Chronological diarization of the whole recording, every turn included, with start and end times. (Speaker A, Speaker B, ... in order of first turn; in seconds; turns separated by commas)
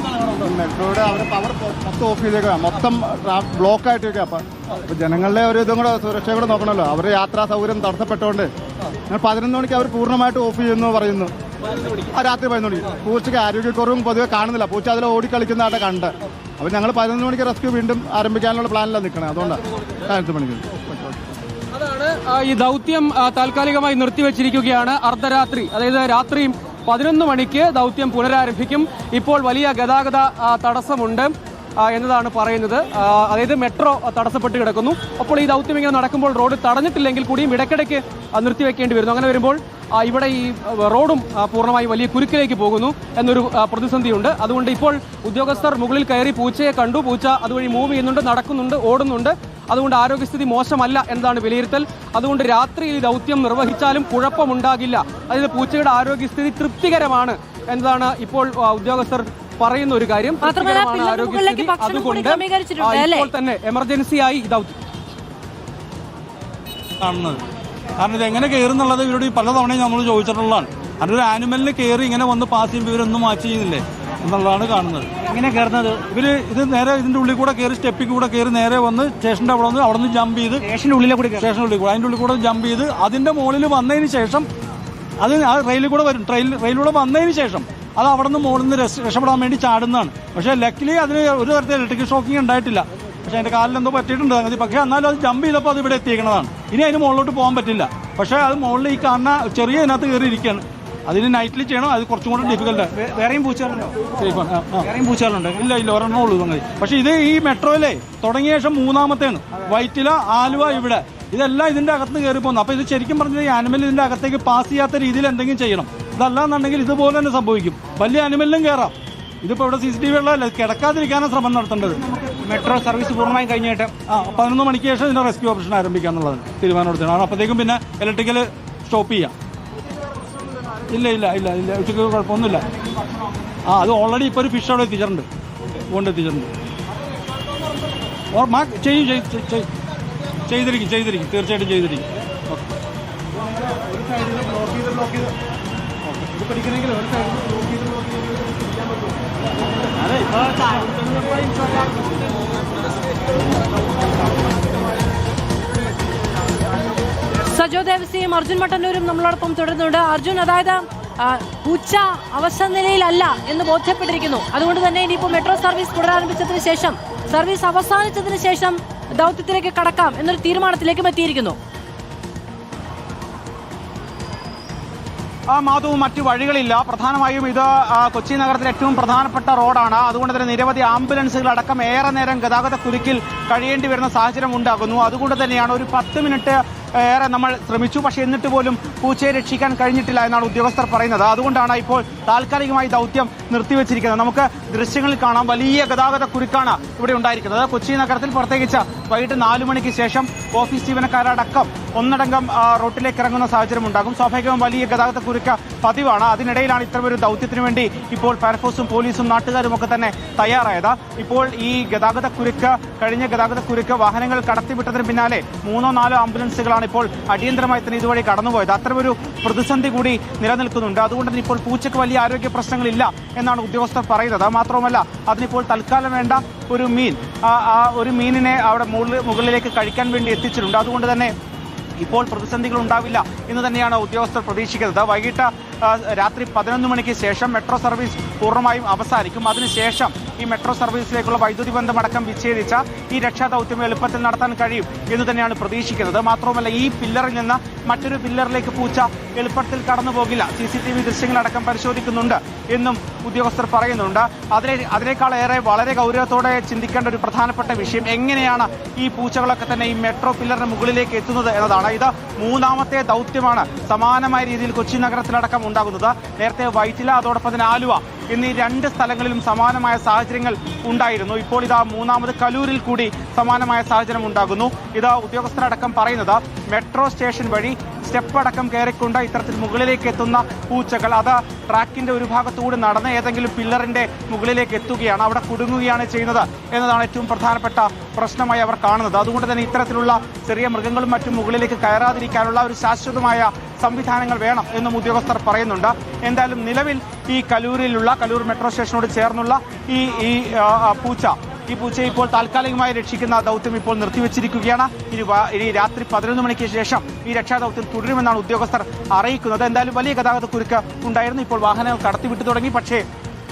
Speaker A: 0.4-8.5, Speaker A: 9.1-11.3, Speaker A: 11.9-21.2, Speaker B: 21.7-64.8, Speaker C: 60.4-63.3, Speaker D: 67.0-67.4, Speaker D: 68.0-75.1, Speaker E: 75.3-76.0, Speaker D: 76.0-80.7, Speaker E: 80.6-81.5, Speaker D: 81.4-84.5, Speaker D: 85.2-102.9, Speaker E: 103.0-104.0, Speaker D: 104.1-104.9, Speaker E: 104.8-105.5, Speaker D: 105.5-122.0, Speaker E: 122.0-123.9, Speaker D: 124.1-129.3, Speaker D: 130.9-132.6, Speaker D: 133.7-135.3, Speaker D: 135.9-136.5, Speaker D: 138.3-139.7, Speaker D: 140.5-142.6, Speaker D: 146.0-146.5, Speaker C: 157.4-171.6, Speaker E: 175.5-231.3, Speaker E: 232.0-313.0